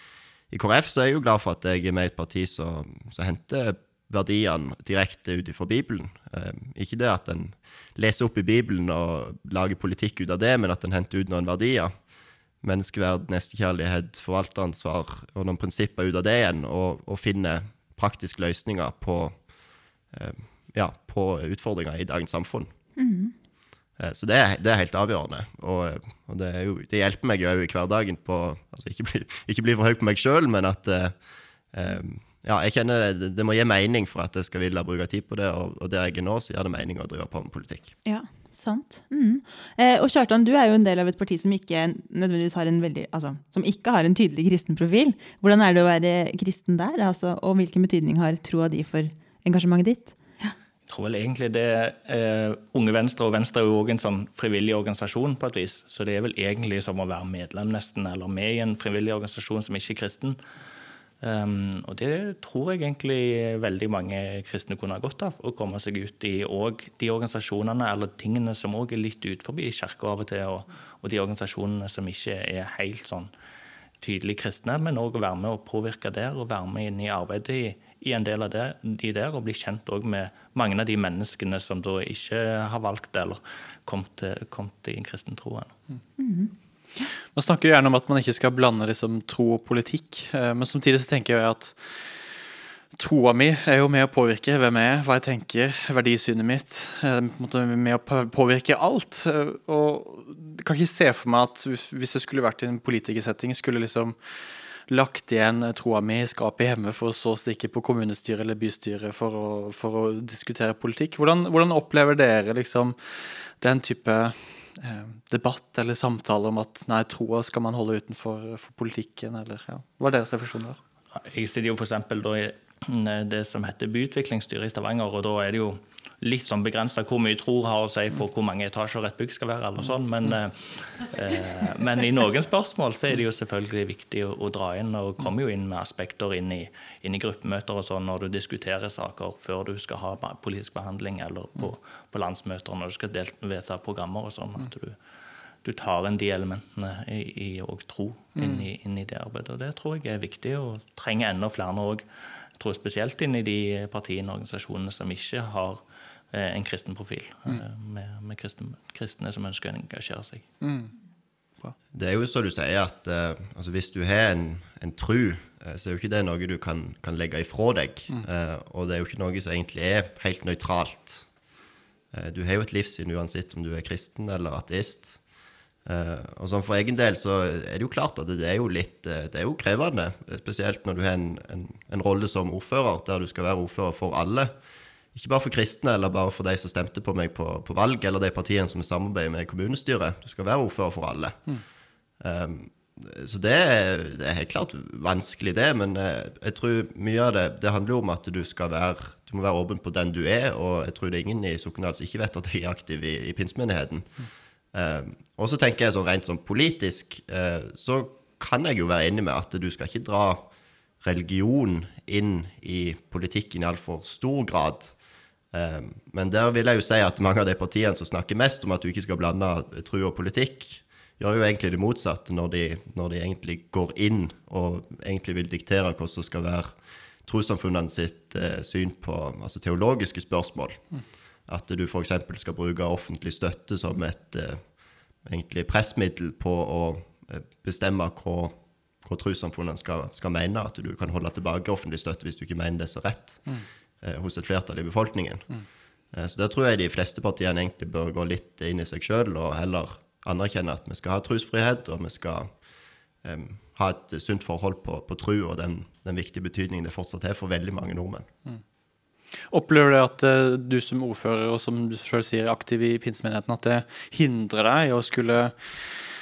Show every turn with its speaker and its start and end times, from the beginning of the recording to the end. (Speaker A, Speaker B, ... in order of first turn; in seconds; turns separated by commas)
Speaker A: 0.5-11.9, Speaker A: 12.6-19.4, Speaker A: 20.1-22.7, Speaker B: 23.0-23.3, Speaker A: 24.0-31.1, Speaker A: 31.7-37.9, Speaker B: 38.0-50.5, Speaker C: 50.9-60.4, Speaker C: 61.2-73.3, Speaker C: 74.0-85.7, Speaker B: 86.2-86.5, Speaker D: 87.3-92.3, Speaker D: 92.9-104.2, Speaker D: 104.9-120.8, Speaker C: 121.1-145.0, Speaker C: 145.6-152.1, Speaker D: 148.4-148.6, Speaker C: 152.6-160.5, Speaker D: 160.6-160.9, Speaker A: 161.9-171.2, Speaker A: 172.1-175.2, Speaker A: 175.8-184.5, Speaker A: 185.1-191.4, Speaker A: 192.2-204.2, Speaker A: 204.7-210.5, Speaker A: 211.0-214.9, Speaker A: 215.5-230.8, Speaker A: 231.5-234.7, Speaker A: 235.2-243.5, Speaker A: 244.0-245.5, Speaker A: 246.1-252.5, Speaker A: 253.2-258.3, Speaker D: 259.5-266.1